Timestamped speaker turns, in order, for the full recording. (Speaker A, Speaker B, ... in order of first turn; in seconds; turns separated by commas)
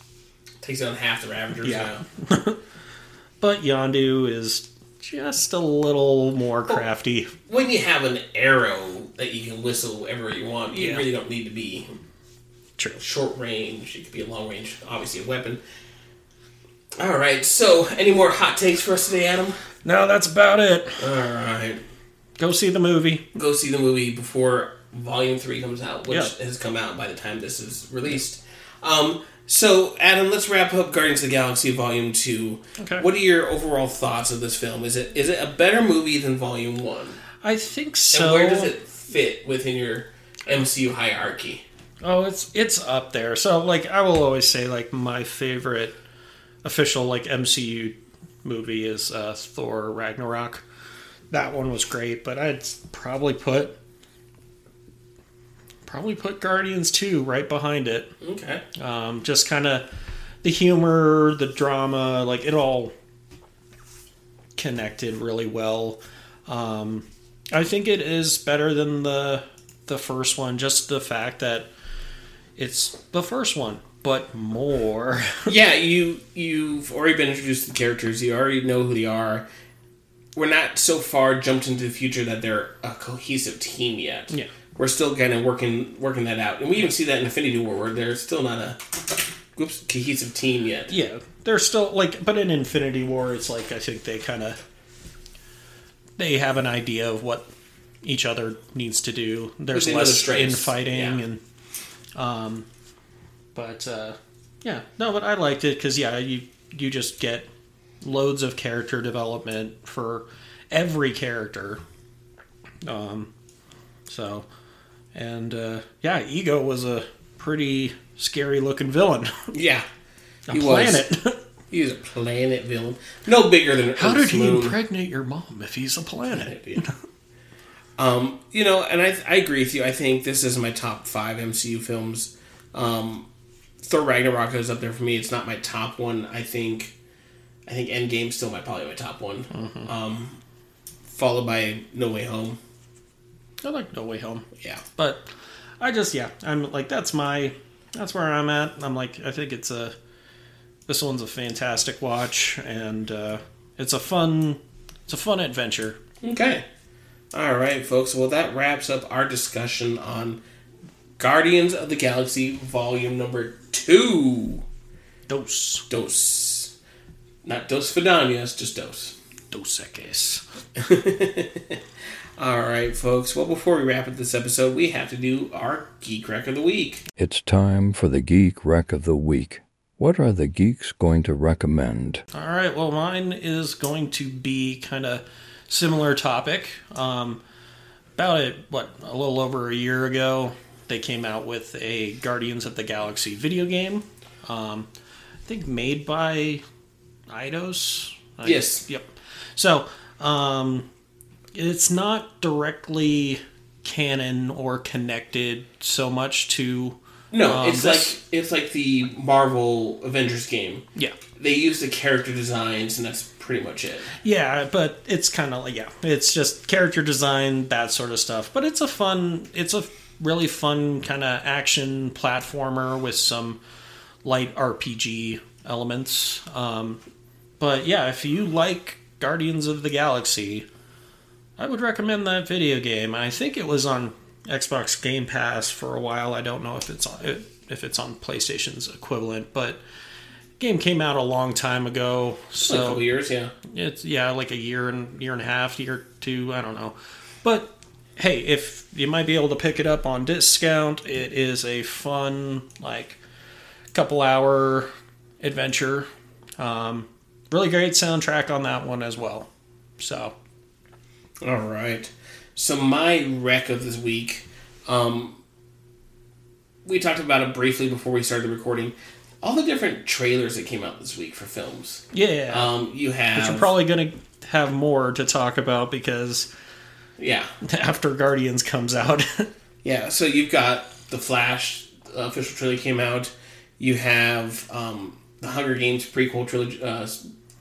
Speaker A: 0.6-2.0, Speaker B: 1.6-2.6, Speaker B: 3.4-7.3, Speaker A: 7.5-11.9, Speaker B: 10.7-11.1, Speaker A: 13.0-15.6, Speaker A: 17.0-19.6, Speaker B: 19.8-21.1, Speaker A: 21.0-21.8, Speaker B: 22.4-23.2, Speaker A: 23.3-37.2, Speaker B: 32.8-33.0, Speaker B: 37.4-38.7, Speaker A: 38.1-41.6, Speaker B: 42.0-46.0, Speaker B: 46.6-50.6, Speaker B: 51.3-53.8, Speaker B: 55.8-58.1, Speaker A: 58.2-58.6, Speaker B: 58.7-59.9, Speaker B: 60.4-62.9, Speaker B: 64.5-71.7, Speaker B: 72.5-75.5, Speaker A: 75.5-79.5, Speaker A: 80.3-88.8, Speaker A: 89.5-90.9, Speaker B: 90.9-94.6, Speaker B: 96.2-97.5, Speaker B: 98.0-101.4, Speaker A: 99.7-101.2, Speaker B: 102.1-102.7, Speaker B: 103.5-107.5, Speaker B: 108.0-111.8, Speaker B: 112.8-113.3, Speaker B: 114.1-114.5, Speaker B: 115.1-119.5, Speaker A: 119.5-119.8, Speaker B: 120.5-121.4, Speaker A: 120.5-121.0, Speaker A: 121.7-124.8, Speaker B: 124.0-126.9, Speaker A: 126.3-126.8, Speaker A: 128.0-133.3, Speaker A: 133.8-136.9, Speaker A: 137.7-140.4, Speaker B: 139.5-139.9, Speaker A: 141.1-142.6, Speaker B: 143.6-145.3, Speaker A: 144.6-144.8, Speaker B: 145.8-149.9, Speaker B: 150.9-156.0, Speaker A: 156.2-156.6, Speaker A: 157.3-160.4, Speaker A: 161.2-164.6, Speaker B: 165.3-165.9, Speaker A: 165.9-166.7, Speaker A: 167.4-169.2, Speaker B: 169.5-170.4, Speaker A: 170.8-171.8, Speaker A: 172.4-177.0, Speaker C: 177.2-182.2, Speaker B: 182.3-187.4, Speaker B: 188.2-194.9, Speaker B: 195.4-196.6, Speaker B: 197.3-200.8, Speaker A: 198.4-198.8, Speaker B: 201.5-208.2, Speaker A: 207.3-210.8, Speaker A: 211.3-214.1, Speaker B: 214.2-223.6, Speaker B: 224.2-227.0, Speaker B: 227.6-230.7, Speaker B: 231.6-239.8, Speaker B: 240.6-243.0, Speaker A: 242.6-243.5, Speaker B: 243.6-253.2, Speaker B: 253.9-254.9, Speaker B: 255.4-260.3, Speaker A: 261.4-265.4, Speaker A: 266.8-273.7, Speaker B: 272.1-272.7, Speaker B: 273.3-276.5, Speaker A: 277.2-277.5, Speaker B: 277.6-279.5, Speaker A: 279.8-287.3